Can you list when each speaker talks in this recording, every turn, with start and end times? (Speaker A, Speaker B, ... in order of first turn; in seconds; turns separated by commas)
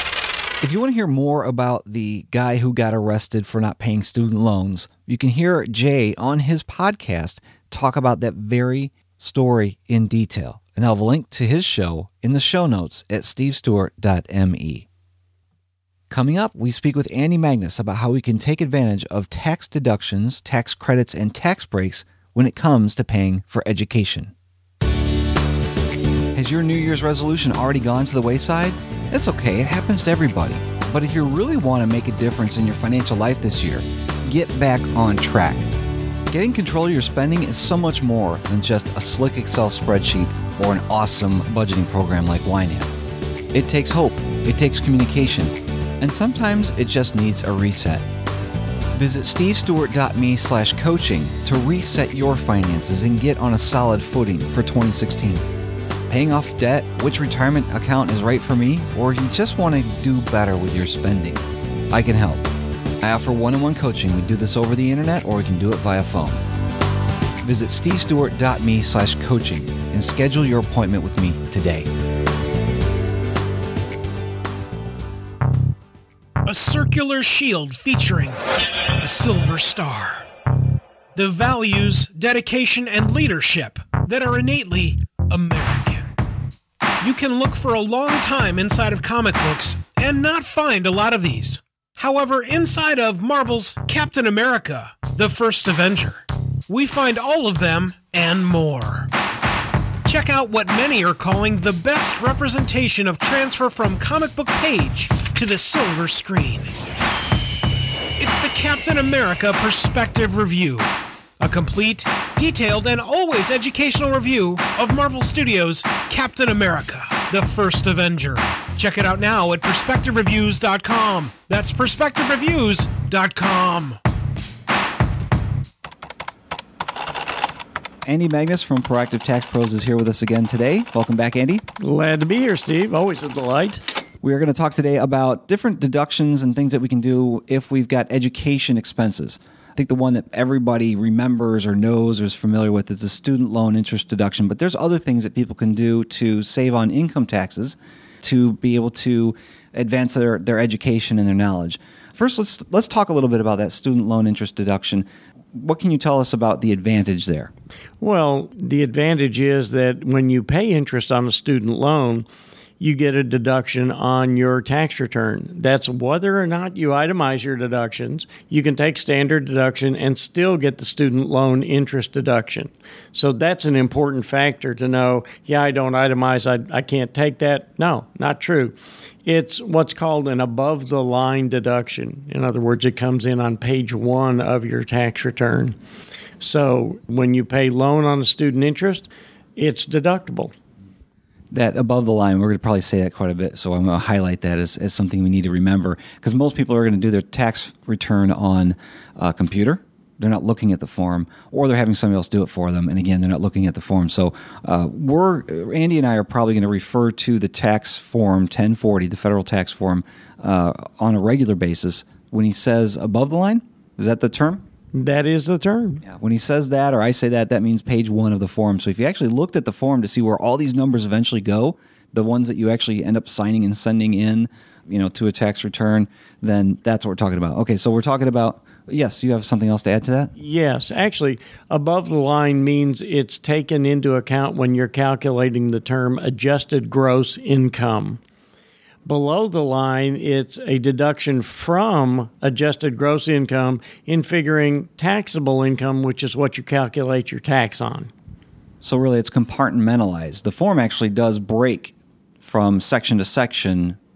Speaker A: 0.6-14.9, Speaker A: 16.1-24.3, Speaker A: 26.3-35.7, Speaker A: 36.3-42.9, Speaker A: 43.5-48.1, Speaker A: 48.9-55.5, Speaker A: 56.1-62.5, Speaker A: 63.0-66.4, Speaker A: 67.4-71.9, Speaker B: 76.5-78.4, Speaker B: 79.0-80.3, Speaker B: 81.2-86.1, Speaker B: 87.0-99.1, Speaker B: 100.0-106.7, Speaker B: 108.2-110.9, Speaker B: 111.4-124.0, Speaker A: 128.1-131.6, Speaker C: 131.8-133.8, Speaker A: 134.2-157.5, Speaker C: 158.0-162.3, Speaker C: 162.8-185.8, Speaker C: 186.4-190.5, Speaker A: 191.5-214.7, Speaker C: 214.9-216.0, Speaker A: 216.0-230.3, Speaker C: 230.4-238.2, Speaker C: 239.1-248.1, Speaker A: 248.8-254.0